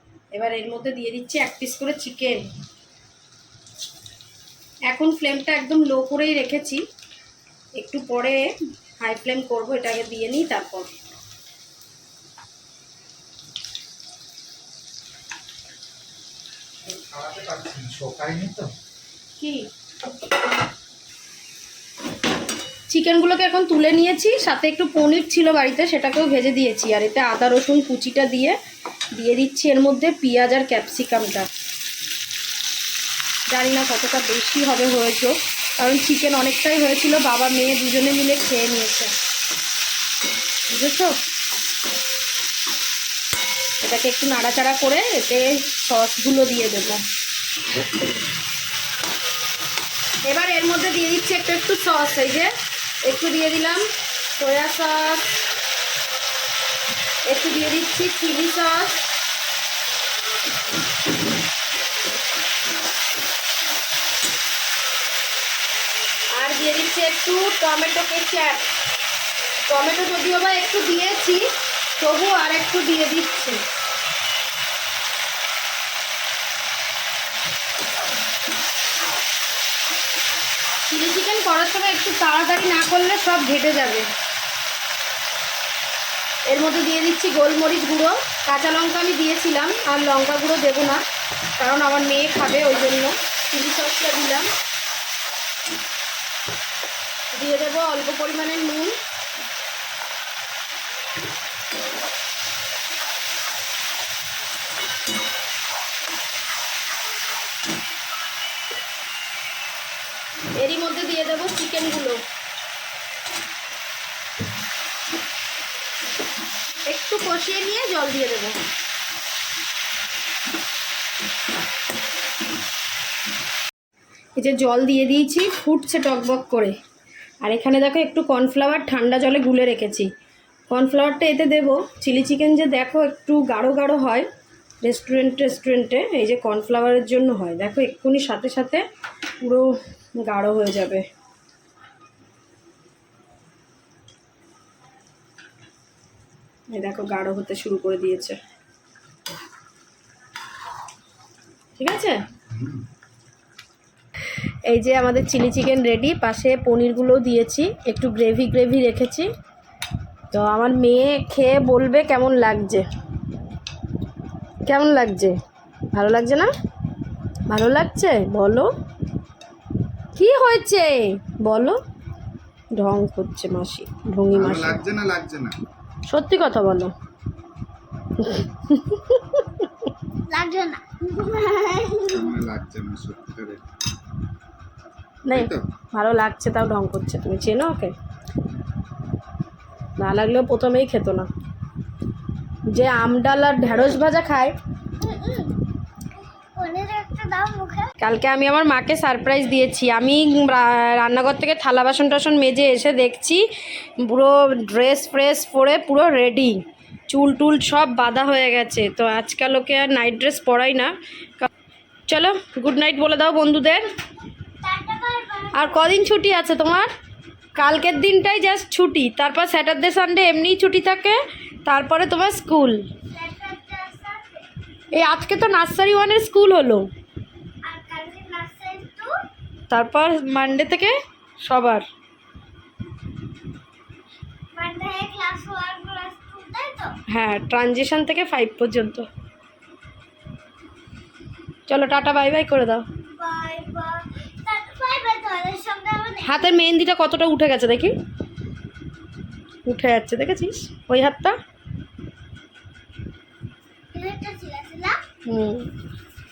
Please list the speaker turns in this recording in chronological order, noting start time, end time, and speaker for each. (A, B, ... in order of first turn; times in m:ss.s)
0:00.3-0:02.4 A
0:04.9-0:06.8 A
0:07.8-0:08.4 A
0:09.0-0:10.9 A
0:16.9-0:18.7 B
0:19.4-0:19.7 A
0:22.9-0:28.6 A
0:29.1-0:31.5 A
0:33.5-0:39.1 A
0:40.7-0:41.2 A
0:43.8-0:47.0 A
0:50.2-0:52.5 A
0:53.0-0:55.2 A
0:57.2-0:59.0 A
1:06.3-1:08.7 A
1:09.7-1:11.4 A
1:12.0-1:13.6 A
1:20.8-1:24.1 A
1:26.5-1:31.0 A
1:31.6-1:34.5 A
1:37.3-1:38.9 A
1:50.5-1:52.2 A
1:56.8-1:58.6 A
2:04.4-2:06.8 A
2:07.4-2:10.1 A
2:10.7-2:14.3 A
2:14.8-2:18.8 A
2:19.4-2:21.0 A
2:26.7-2:28.4 A
2:31.8-2:32.2 A
2:34.7-2:39.3 A
2:40.3-2:42.8 A
2:44.6-2:45.3 A
2:45.9-2:46.5 A
2:47.5-2:48.7 A
2:50.1-2:51.8 A
2:52.8-2:54.8 A
2:54.3-2:55.6 B
2:56.1-2:56.9 A
2:58.2-2:59.9 A
3:00.3-3:02.3 C
3:02.1-3:03.6 B
3:05.2-3:07.9 A
3:05.3-3:05.6 B
3:10.0-3:11.3 A
3:12.7-3:14.5 A
3:15.0-3:15.6 C
3:16.6-3:17.9 C
3:18.0-3:23.4 A
3:24.0-3:26.6 A
3:27.1-3:31.5 A
3:32.1-3:33.8 A
3:34.6-3:35.9 C
3:35.5-3:36.9 A
3:37.6-3:42.8 A
3:43.1-3:44.5 C
3:44.9-3:46.8 A
3:47.6-3:49.1 C
3:49.7-3:51.8 A
3:54.5-3:57.0 C
3:57.1-3:59.1 A
4:01.7-4:02.8 A
4:03.0-4:06.5 C
4:06.2-4:07.9 A
4:09.6-4:11.4 A
4:13.9-4:15.0 C
4:15.2-4:15.7 A